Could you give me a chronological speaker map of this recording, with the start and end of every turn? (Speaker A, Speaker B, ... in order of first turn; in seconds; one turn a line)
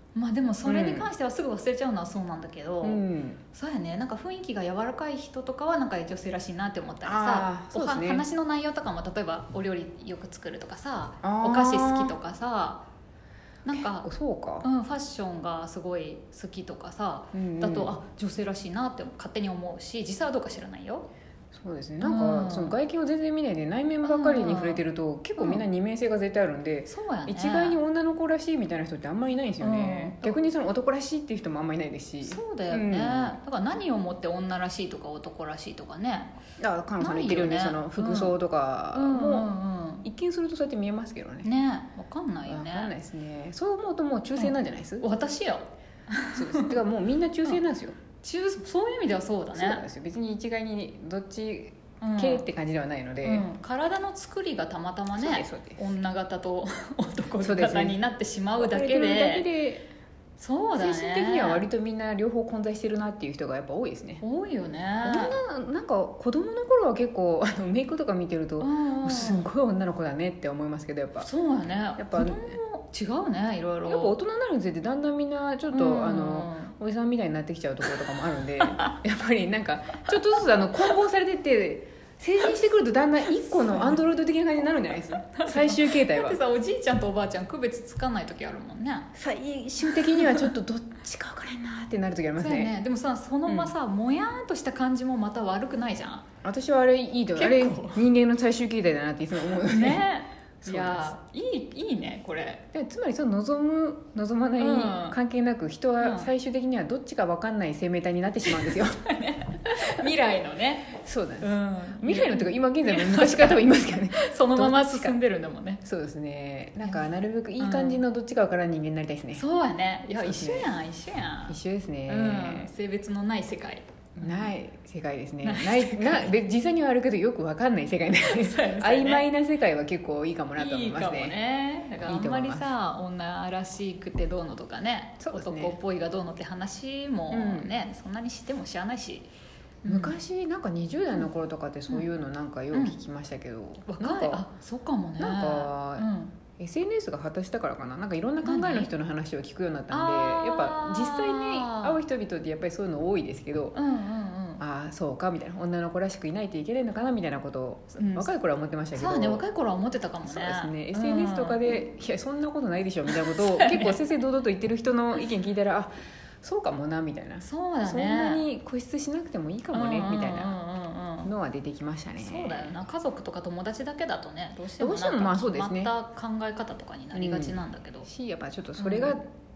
Speaker A: 0.1-12.8
Speaker B: 0.7-1.1
Speaker B: 2.8-3.4
Speaker B: 7.0-8.2
Speaker B: 11.2-12.2
Speaker A: 13.7-14.1
Speaker B: 13.7-14.7
Speaker A: 14.6-21.1
Speaker B: 17.3-17.9
Speaker B: 21.5-33.4
Speaker A: 22.0-22.8
Speaker A: 24.0-24.8
Speaker A: 25.4-25.6
Speaker A: 26.9-27.8
Speaker A: 29.6-30.4
Speaker A: 32.2-36.4
Speaker B: 36.6-39.5
Speaker A: 37.0-38.4
Speaker A: 38.9-40.1
Speaker B: 40.0-41.5
Speaker A: 41.4-42.9
Speaker B: 42.5-45.0
Speaker A: 44.4-46.8
Speaker B: 46.3-48.0
Speaker A: 48.2-49.9
Speaker B: 49.5-53.5
Speaker A: 52.0-52.5
Speaker A: 53.2-59.5
Speaker B: 55.1-55.8
Speaker B: 57.4-58.0
Speaker B: 58.6-59.8
Speaker A: 60.4-61.7
Speaker B: 60.8-64.2
Speaker A: 64.2-65.3
Speaker B: 65.0-71.3
Speaker A: 68.6-69.5
Speaker A: 71.2-74.2
Speaker B: 72.0-72.5
Speaker B: 73.9-86.4
Speaker A: 75.7-76.7
Speaker A: 83.7-84.0
Speaker A: 85.3-89.1
Speaker B: 89.2-92.7
Speaker A: 90.1-90.5
Speaker A: 92.4-96.2
Speaker B: 93.5-93.7
Speaker B: 96.4-100.0
Speaker A: 97.3-98.1
Speaker A: 99.5-102.6
Speaker B: 100.6-101.1
Speaker B: 102.7-109.0
Speaker A: 104.6-105.2
Speaker A: 106.0-106.3
Speaker A: 108.5-115.8
Speaker B: 109.7-110.0
Speaker B: 111.0-115.2
Speaker B: 115.8-119.4
Speaker A: 117.6-118.0
Speaker A: 119.4-121.6
Speaker B: 120.2-120.7
Speaker B: 121.5-122.7
Speaker A: 122.1-124.5
Speaker B: 124.2-131.4
Speaker A: 125.4-126.3
Speaker A: 128.2-129.2
Speaker A: 130.6-139.3
Speaker B: 132.0-132.7
Speaker B: 135.2-135.8
Speaker B: 137.3-137.7
Speaker A: 139.8-140.2
Speaker B: 139.8-144.4
Speaker A: 142.7-143.0
Speaker A: 143.9-146.3
Speaker B: 145.2-153.8
Speaker A: 148.4-148.9
Speaker A: 149.9-152.0
Speaker A: 153.8-154.6
Speaker B: 154.6-159.4
Speaker A: 157.9-158.3
Speaker A: 158.9-161.6
Speaker B: 160.2-170.6
Speaker A: 163.2-163.9
Speaker A: 167.4-168.4
Speaker A: 169.7-171.3
Speaker B: 171.2-172.8
Speaker A: 172.2-178.1
Speaker B: 174.8-175.9
Speaker B: 177.1-179.2
Speaker A: 178.8-179.2